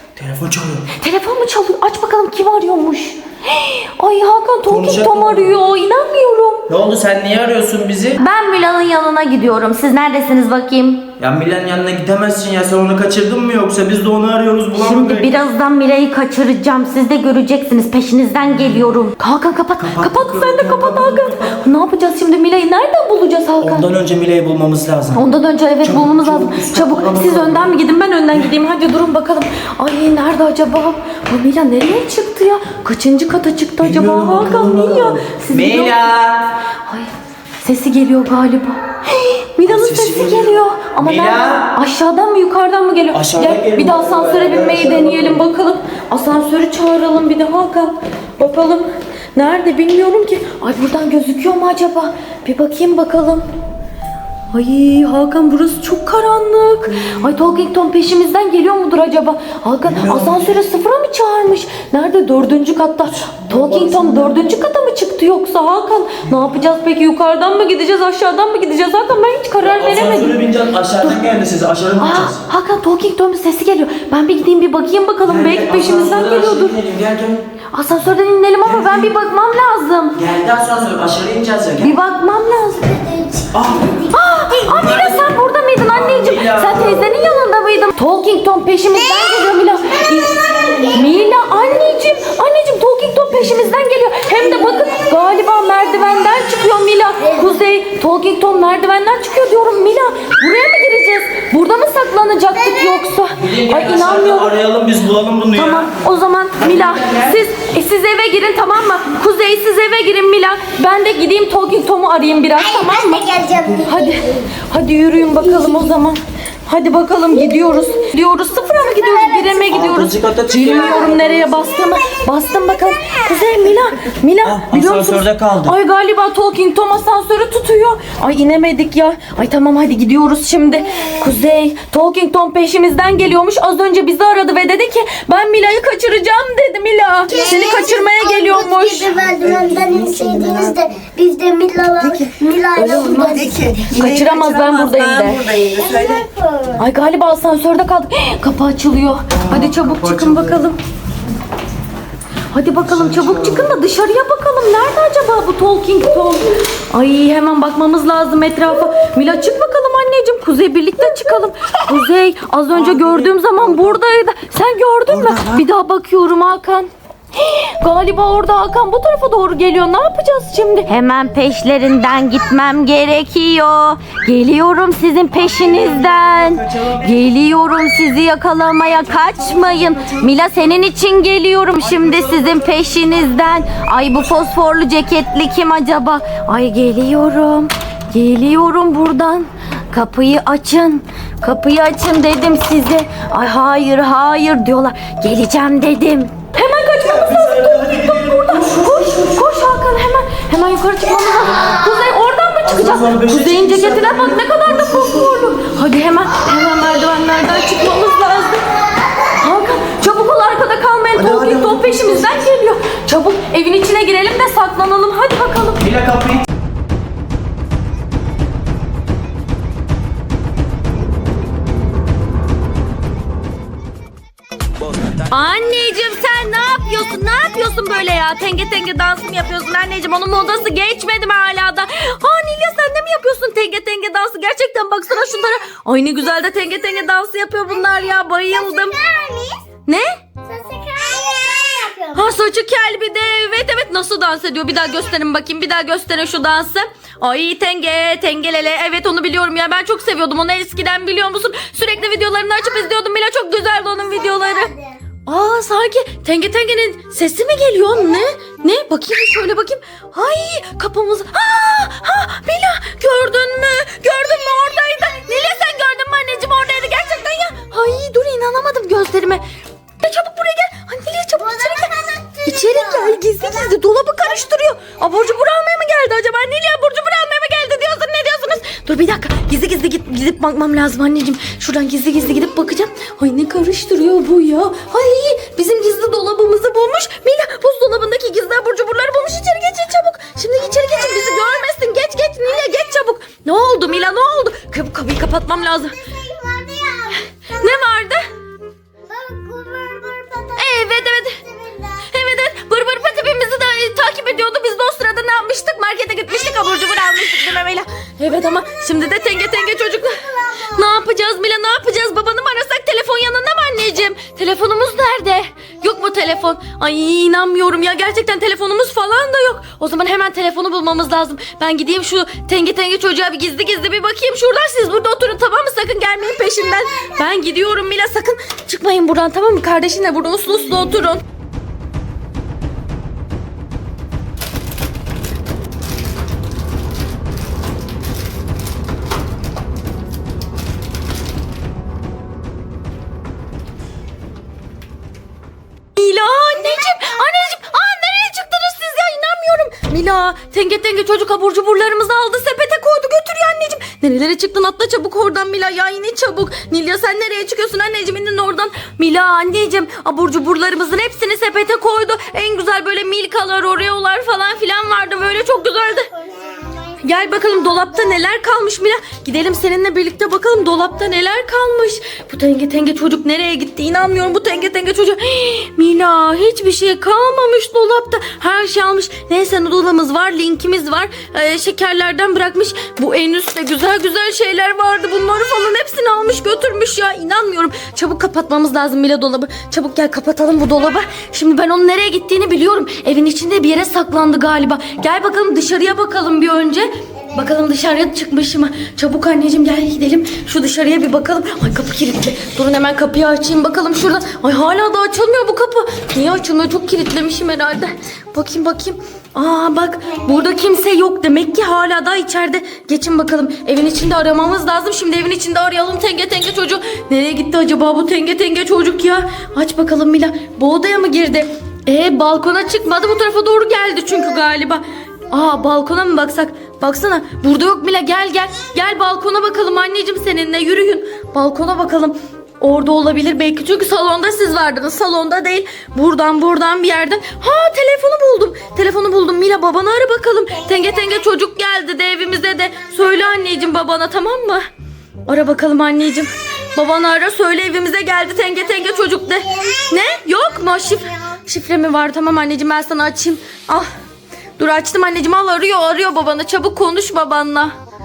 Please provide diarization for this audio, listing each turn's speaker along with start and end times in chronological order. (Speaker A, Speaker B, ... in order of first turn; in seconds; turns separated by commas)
Speaker A: 0.2-0.8, Speaker B: 1.0-6.7, Speaker A: 4.7-5.5, Speaker A: 6.7-8.2, Speaker B: 8.2-11.1, Speaker A: 11.2-15.3, Speaker B: 14.7-23.9, Speaker A: 19.8-21.6, Speaker A: 23.6-25.2, Speaker B: 25.1-36.1, Speaker A: 25.8-27.7, Speaker A: 33.8-36.5, Speaker B: 36.9-53.4, Speaker A: 39.6-41.7, Speaker A: 43.1-45.4, Speaker B: 54.5-70.4, Speaker A: 59.8-60.6, Speaker A: 63.2-64.4, Speaker A: 69.6-72.4, Speaker B: 72.0-76.8, Speaker A: 75.2-77.4, Speaker B: 77.7-80.2, Speaker A: 78.7-79.1, Speaker A: 80.2-81.9, Speaker B: 81.8-83.2, Speaker A: 83.5-85.3, Speaker B: 84.1-104.5, Speaker A: 85.9-87.1, Speaker C: 90.4-90.9, Speaker A: 103.4-105.9, Speaker B: 105.5-113.3, Speaker A: 106.6-107.3, Speaker C: 112.8-114.4, Speaker B: 113.8-139.2, Speaker A: 119.7-121.4, Speaker A: 124.5-125.8, Speaker C: 137.3-143.8, Speaker A: 139.2-140.8, Speaker B: 142.0-145.5, Speaker A: 143.2-146.3, Speaker C: 145.7-146.7, Speaker B: 146.8-150.8, Speaker A: 149.4-150.6, Speaker B: 152.5-208.7, Speaker A: 152.9-153.8, Speaker A: 162.7-164.0, Speaker A: 165.1-165.6, Speaker A: 175.3-177.2, Speaker A: 179.3-180.3, Speaker A: 181.8-183.3, Speaker A: 197.0-199.3, Speaker A: 202.6-205.4, Speaker B: 209.3-215.8, Speaker A: 211.2-212.4, Speaker A: 215.8-216.4, Speaker B: 225.3-239.0, Speaker C: 238.6-239.6, Speaker C: 240.5-242.1, Speaker B: 242.1-269.4, Speaker B: 270.0-296.0, Speaker C: 271.7-273.2, Speaker C: 296.1-297.1, Speaker B: 297.5-298.2, Speaker C: 299.1-300.5, Speaker B: 300.5-301.4, Speaker C: 301.5-301.8, Speaker B: 302.0-331.2, Speaker B: 346.0-366.1, Speaker B: 367.0-444.6, Speaker B: 445.3-453.9, Speaker B: 454.6-457.8